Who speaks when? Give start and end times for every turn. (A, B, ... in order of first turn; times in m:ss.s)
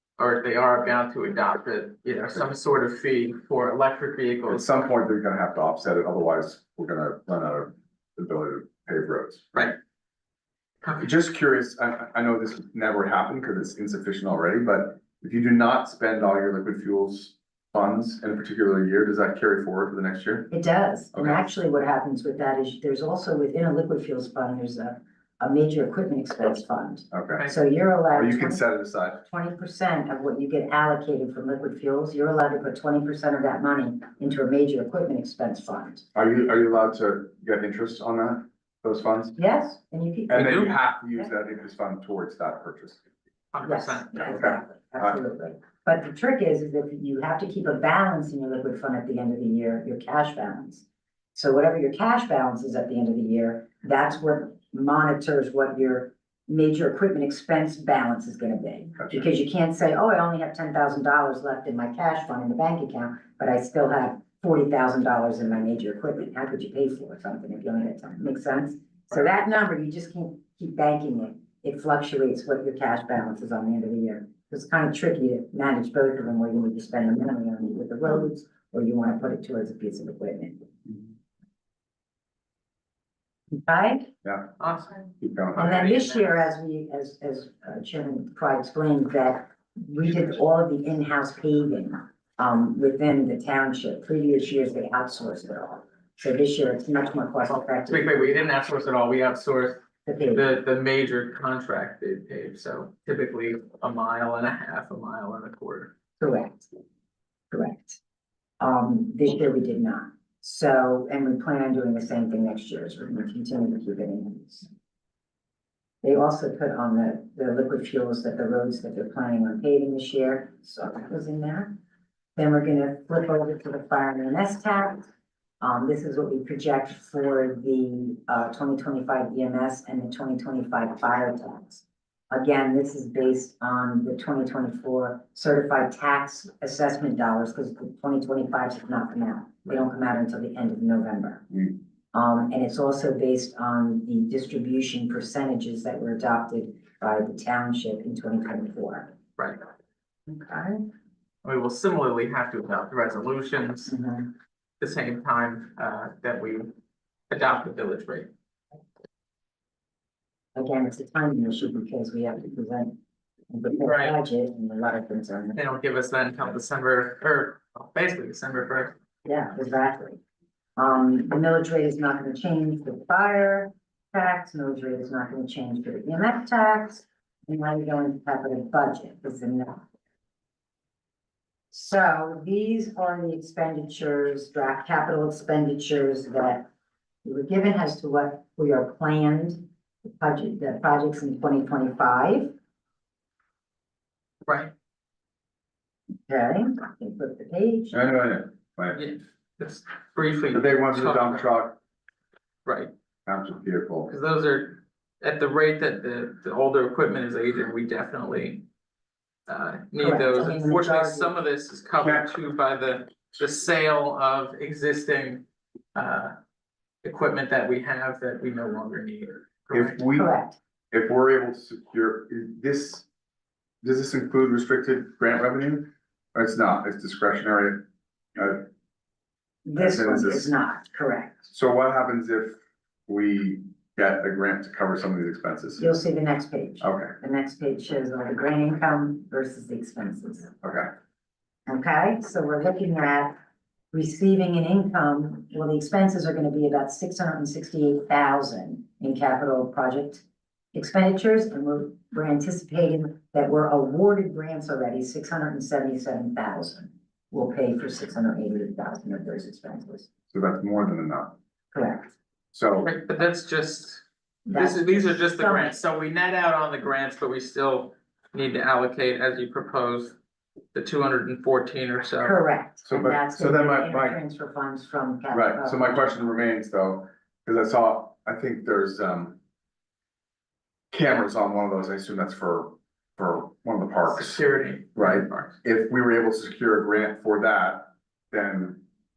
0:00.2-0:04.7 A
0:04.5-0:09.5 B
0:10.8-0:11.1 A
0:11.0-0:20.5 B
0:20.5-0:28.6 C
0:21.1-0:21.4 B
0:27.1-0:27.5 B
0:28.1-0:29.2 B
0:29.3-0:36.1 C
0:36.2-0:39.4 B
0:39.4-0:40.7 C
0:40.3-0:43.0 B
0:40.3-0:40.7 A
0:43.5-0:44.4 A
0:43.6-1:20.7 C
0:44.3-0:45.2 B
1:23.6-1:24.1 C
1:24.2-1:24.5 B
1:24.6-1:26.5 A
1:25.2-1:25.7 B
1:25.6-1:38.3 C
1:37.5-1:39.8 A
1:40.0-1:40.5 C
1:40.3-1:45.9 A
1:46.2-1:46.7 C
1:47.5-1:48.0 C
1:48.6-1:54.7 C
1:56.0-2:01.7 C
2:02.4-2:05.1 C
2:05.6-2:21.5 C
2:22.1-2:29.1 C
2:30.3-2:30.8 C
2:31.4-2:33.9 A
2:33.9-2:34.3 C
2:34.8-2:36.7 A
2:37.3-2:38.3 A
2:40.6-2:43.0 C
2:43.5-2:45.6 C
2:43.8-2:44.2 A
2:45.6-2:48.9 A
2:49.2-2:50.2 C
2:50.8-2:59.8 C
3:01.7-3:06.7 C
3:07.2-3:12.5 C
3:14.4-3:14.7 A
3:16.3-3:18.0 C
3:17.9-3:19.0 B
3:19.0-3:21.5 A
3:20.5-3:21.8 B
3:22.6-3:22.9 A
3:23.3-3:24.1 B
3:24.1-3:28.6 A
3:29.5-3:35.4 A
3:30.0-3:31.3 C
3:32.0-3:32.3 B
3:35.9-3:36.4 A
3:37.0-3:40.0 A
3:39.7-3:40.3 B
3:40.2-3:40.6 C
3:40.9-3:43.1 B
3:43.8-3:47.8 B
3:48.4-3:48.7 B
3:49.6-3:51.4 C
3:49.8-3:50.5 B
3:51.5-3:55.9 B
3:55.8-4:00.5 C
3:56.8-3:57.2 B
4:00.6-4:00.9 B
4:01.7-4:03.4 C
4:03.9-4:20.1 C
4:20.3-4:21.4 B
4:21.7-4:22.1 C
4:22.5-4:22.9 B
4:22.8-4:30.2 A
4:24.5-4:25.8 C
4:30.7-4:32.4 A
4:32.2-4:36.1 C
4:32.9-4:34.2 B
4:35.3-4:39.4 B
4:40.9-4:44.4 B
4:44.1-4:45.6 A
4:45.0-4:48.8 B